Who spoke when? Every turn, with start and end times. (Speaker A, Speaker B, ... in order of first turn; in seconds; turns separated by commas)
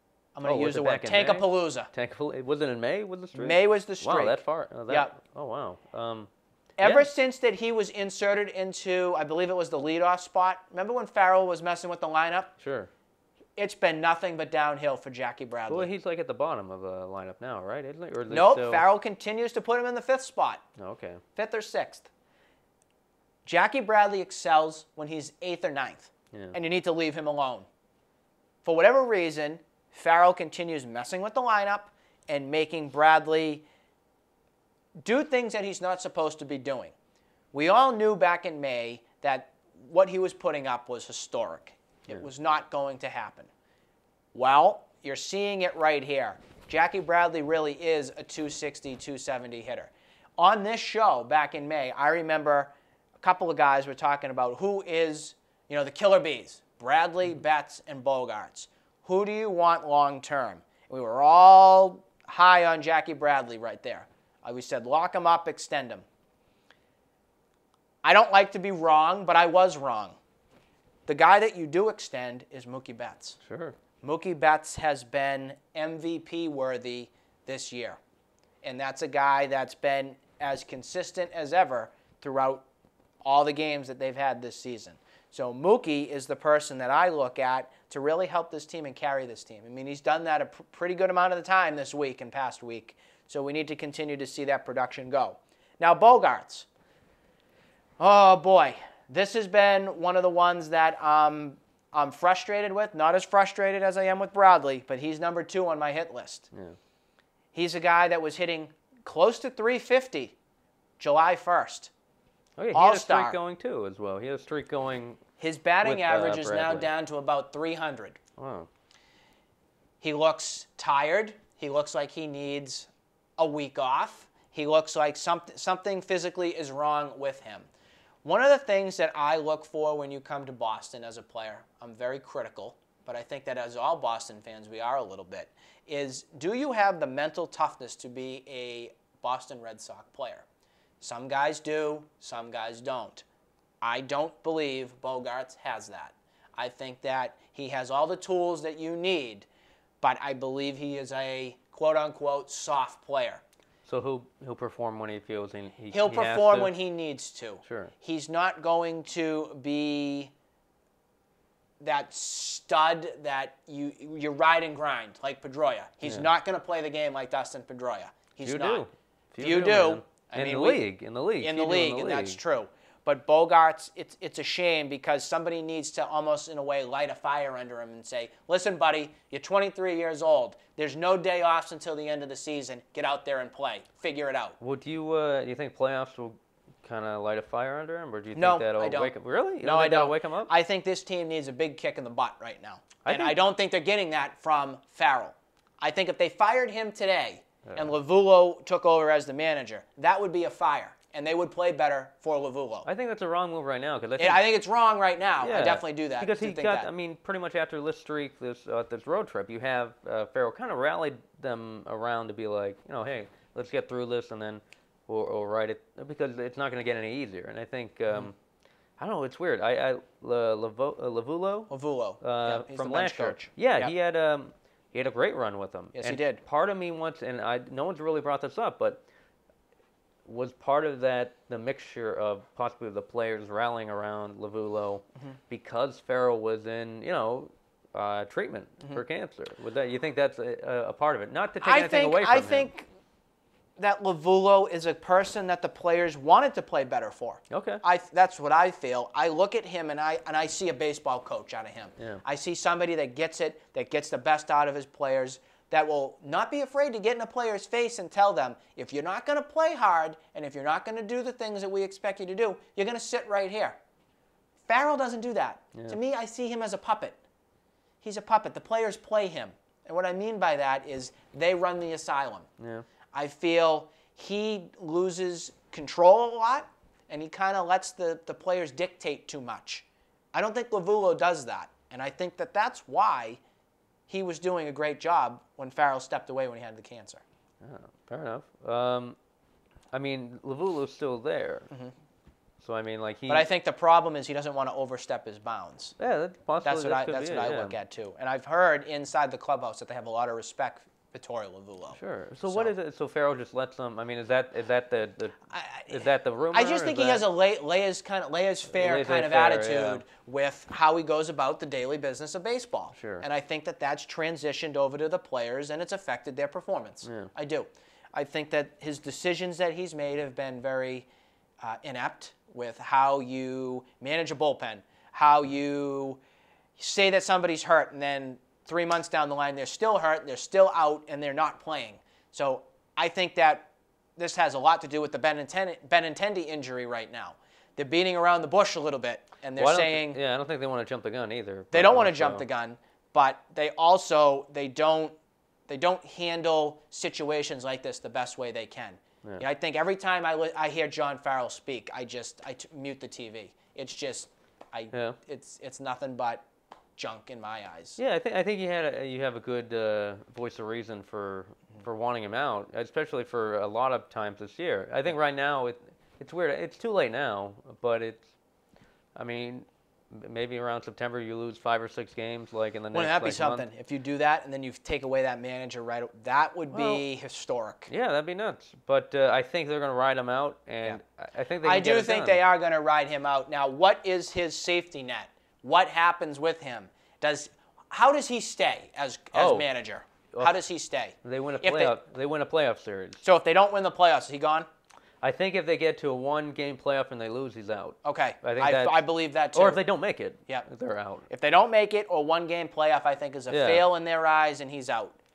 Speaker A: 0.3-1.9, Speaker B: 0.4-7.1, Speaker A: 3.3-5.1, Speaker A: 6.8-12.5, Speaker B: 12.6-12.9, Speaker A: 13.6-15.9, Speaker B: 15.7-18.9, Speaker A: 18.3-20.6, Speaker B: 20.8-21.2, Speaker A: 21.3-22.1, Speaker A: 23.4-27.6, Speaker A: 28.6-33.6, Speaker A: 35.0-36.9, Speaker A: 37.5-43.5, Speaker A: 44.3-66.0, Speaker A: 68.0-70.2, Speaker A: 71.1-73.4, Speaker B: 73.4-73.8, Speaker A: 74.0-78.0, Speaker A: 78.6-82.6, Speaker A: 83.2-96.7, Speaker A: 98.0-106.5, Speaker B: 106.5-106.8, Speaker A: 107.5-110.3, Speaker A: 111.0-111.9, Speaker B: 112.6-115.2, Speaker A: 112.7-113.4, Speaker A: 115.4-118.2, Speaker B: 115.8-116.9, Speaker B: 118.4-118.7, Speaker A: 120.0-127.7, Speaker A: 128.2-140.4, Speaker A: 141.0-143.2, Speaker A: 143.8-149.4, Speaker A: 150.0-153.4, Speaker B: 153.8-156.7, Speaker A: 155.9-160.3, Speaker B: 157.6-157.9, Speaker A: 161.8-168.8, Speaker B: 166.0-166.3, Speaker B: 168.4-172.4, Speaker A: 169.4-170.8, Speaker A: 171.4-184.6, Speaker B: 184.6-190.5, Speaker A: 188.3-202.9, Speaker B: 193.0-193.4, Speaker B: 197.6-197.9, Speaker B: 202.8-204.4, Speaker A: 204.2-206.9, Speaker B: 205.4-218.3, Speaker B: 219.0-229.0, Speaker A: 221.7-223.9, Speaker A: 225.9-226.4, Speaker B: 230.2-242.7, Speaker A: 241.6-242.9, Speaker A: 243.8-263.8, Speaker B: 247.5-247.8, Speaker A: 264.7-267.2, Speaker A: 268.0-272.5, Speaker B: 272.6-272.9, Speaker A: 273.1-283.4, Speaker A: 284.1-287.2, Speaker B: 287.6-289.2, Speaker B: 289.9-291.7, Speaker B: 292.6-293.5, Speaker A: 293.3-295.9, Speaker B: 296.0-297.8, Speaker A: 296.6-302.7, Speaker B: 301.9-307.2, Speaker A: 305.5-321.1, Speaker B: 308.7-310.0, Speaker B: 312.9-313.2, Speaker B: 317.0-317.3, Speaker A: 321.6-326.2, Speaker A: 326.8-340.2, Speaker B: 339.6-342.4, Speaker A: 341.7-345.1, Speaker A: 345.7-356.4, Speaker A: 357.0-358.0, Speaker B: 358.0-368.3, Speaker B: 369.1-373.6, Speaker A: 372.9-377.9, Speaker B: 376.7-377.0, Speaker B: 377.9-382.4, Speaker A: 381.6-391.9, Speaker B: 389.3-389.7, Speaker B: 390.3-390.6, Speaker B: 391.2-393.2, Speaker A: 393.2-394.7, Speaker B: 395.2-401.3, Speaker A: 398.0-399.8, Speaker A: 401.3-405.2, Speaker B: 403.5-403.9